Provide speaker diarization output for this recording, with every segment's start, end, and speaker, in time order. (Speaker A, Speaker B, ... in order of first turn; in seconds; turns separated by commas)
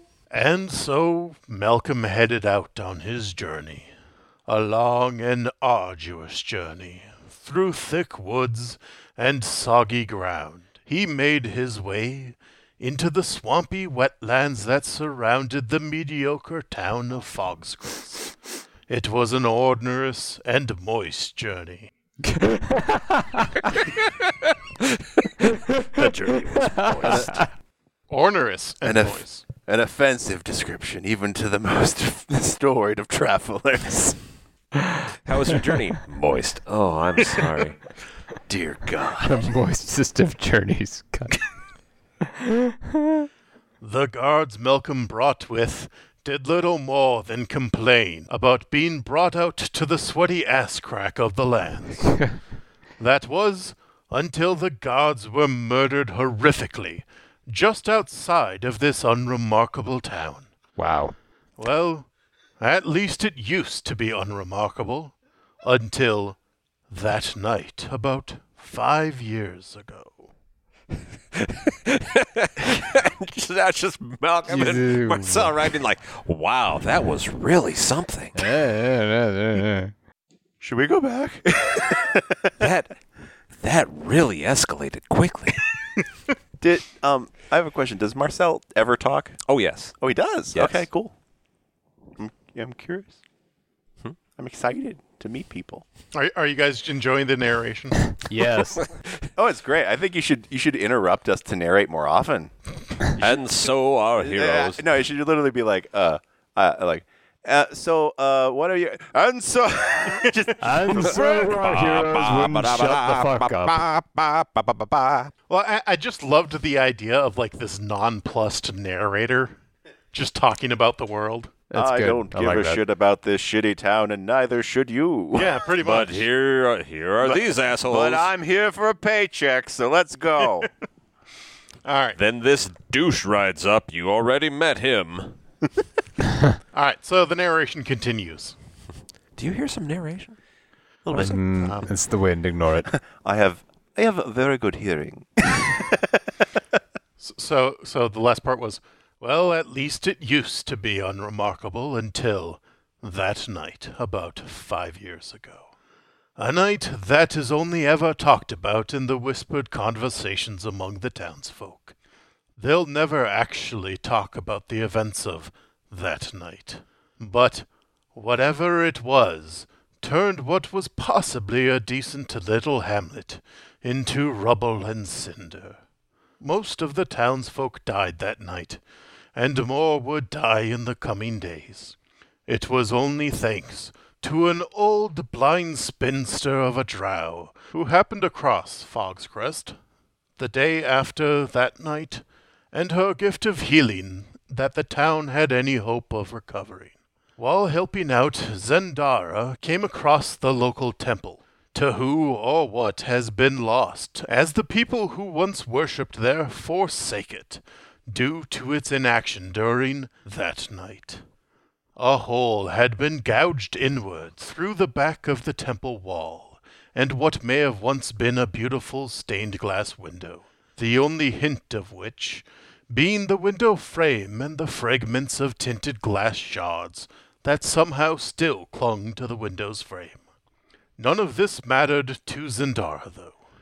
Speaker A: 0.3-3.9, Speaker A: 4.5-18.3, Speaker A: 18.9-21.9, Speaker B: 22.2-23.7, Speaker B: 25.7-27.4, Speaker C: 25.9-27.4, Speaker D: 27.0-27.4, Speaker A: 28.1-29.4, Speaker D: 28.8-34.2, Speaker C: 35.2-37.8, Speaker D: 38.5-39.5, Speaker B: 39.2-41.4, Speaker A: 43.8-52.2, Speaker A: 53.0-60.5, Speaker B: 60.8-61.1, Speaker A: 61.6-62.1, Speaker A: 62.6-66.4, Speaker A: 66.9-70.3, Speaker C: 71.3-78.5, Speaker B: 74.5-75.5, Speaker B: 78.3-79.9, Speaker D: 80.6-82.5, Speaker C: 82.6-82.9, Speaker C: 83.6-85.7, Speaker D: 86.6-89.4, Speaker C: 89.5-90.0, Speaker D: 90.0-91.1, Speaker C: 90.5-90.8, Speaker D: 92.2-93.2, Speaker D: 94.3-95.8, Speaker A: 96.1-98.0, Speaker B: 98.2-98.9, Speaker C: 98.8-99.2, Speaker D: 99.3-102.5, Speaker D: 103.1-103.4, Speaker C: 103.2-104.8, Speaker D: 104.2-111.3, Speaker B: 110.6-113.8, Speaker C: 110.9-115.3, Speaker A: 115.5-119.6, Speaker A: 120.1-121.5, Speaker B: 121.7-122.8, Speaker D: 121.7-125.5, Speaker A: 125.3-126.3, Speaker C: 125.8-128.3, Speaker D: 127.2-130.7, Speaker A: 131.8-132.2, Speaker C: 132.2-135.4, Speaker A: 136.7-138.5, Speaker C: 139.3-140.3, Speaker C: 141.0-141.4, Speaker B: 141.1-142.9, Speaker A: 141.6-141.9, Speaker D: 142.9-146.2, Speaker A: 147.2-155.7, Speaker A: 156.4-161.9, Speaker A: 162.6-175.8, Speaker A: 176.4-178.8, Speaker A: 179.3-181.9, Speaker A: 182.5-189.8, Speaker A: 190.4-211.2, Speaker A: 212.0-230.2, Speaker A: 231.0-233.3